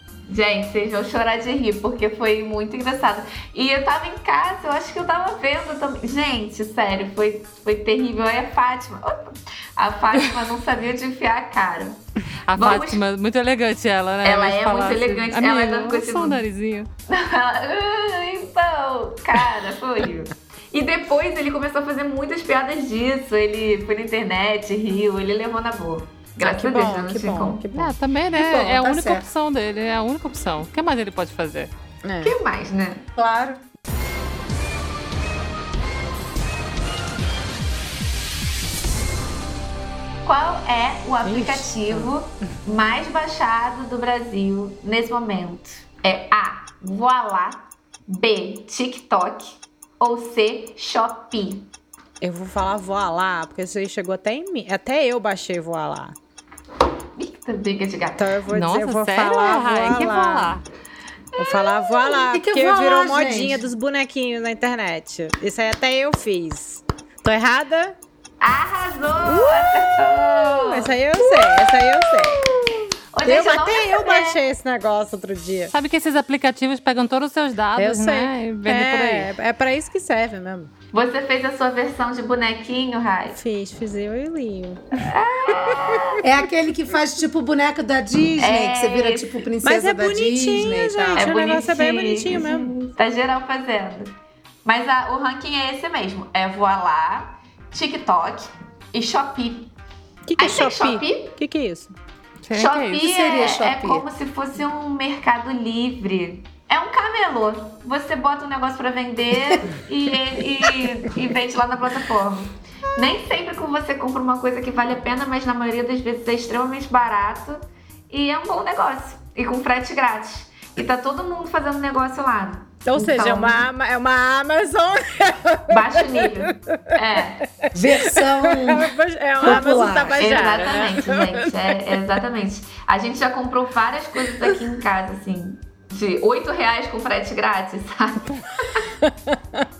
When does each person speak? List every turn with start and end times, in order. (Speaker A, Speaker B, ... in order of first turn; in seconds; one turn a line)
Speaker A: 0.3-12.0
Speaker B: 12.5-16.9
Speaker A: 12.5-13.0
Speaker A: 14.2-16.4
Speaker A: 17.1-27.6
Speaker C: 26.4-27.9
Speaker B: 27.7-31.7
Speaker D: 28.3-29.3
Speaker C: 32.0-32.4
Speaker A: 32.2-33.0
Speaker D: 33.2-33.6
Speaker A: 40.2-51.7
Speaker C: 41.2-42.1
Speaker C: 52.2-56.1
Speaker A: 57.1-58.3
Speaker C: 58.2-60.3
Speaker B: 58.5-60.6
Speaker D: 59.3-60.5
Speaker C: 61.4-68.0
Speaker D: 62.0-63.7
Speaker A: 68.4-71.0
Speaker C: 69.2-69.7
Speaker C: 70.6-75.7
Speaker A: 73.1-74.4
Speaker B: 75.7-79.3
Speaker C: 77.8-80.7
Speaker A: 80.9-83.4
Speaker C: 83.3-85.1
Speaker A: 85.0-86.2
Speaker D: 86.2-91.3
Speaker A: 88.4-89.3
Speaker C: 89.6-92.7
Speaker A: 91.1-99.7
Speaker C: 100.3-101.9
Speaker A: 100.4-101.3
Speaker B: 102.5-103.0
Speaker A: 102.5-123.7
Speaker D: 102.9-104.0
Speaker C: 122.8-126.8
Speaker A: 125.7-127.4
Speaker C: 127.7-131.8
Speaker D: 127.7-130.3
Speaker A: 129.4-138.8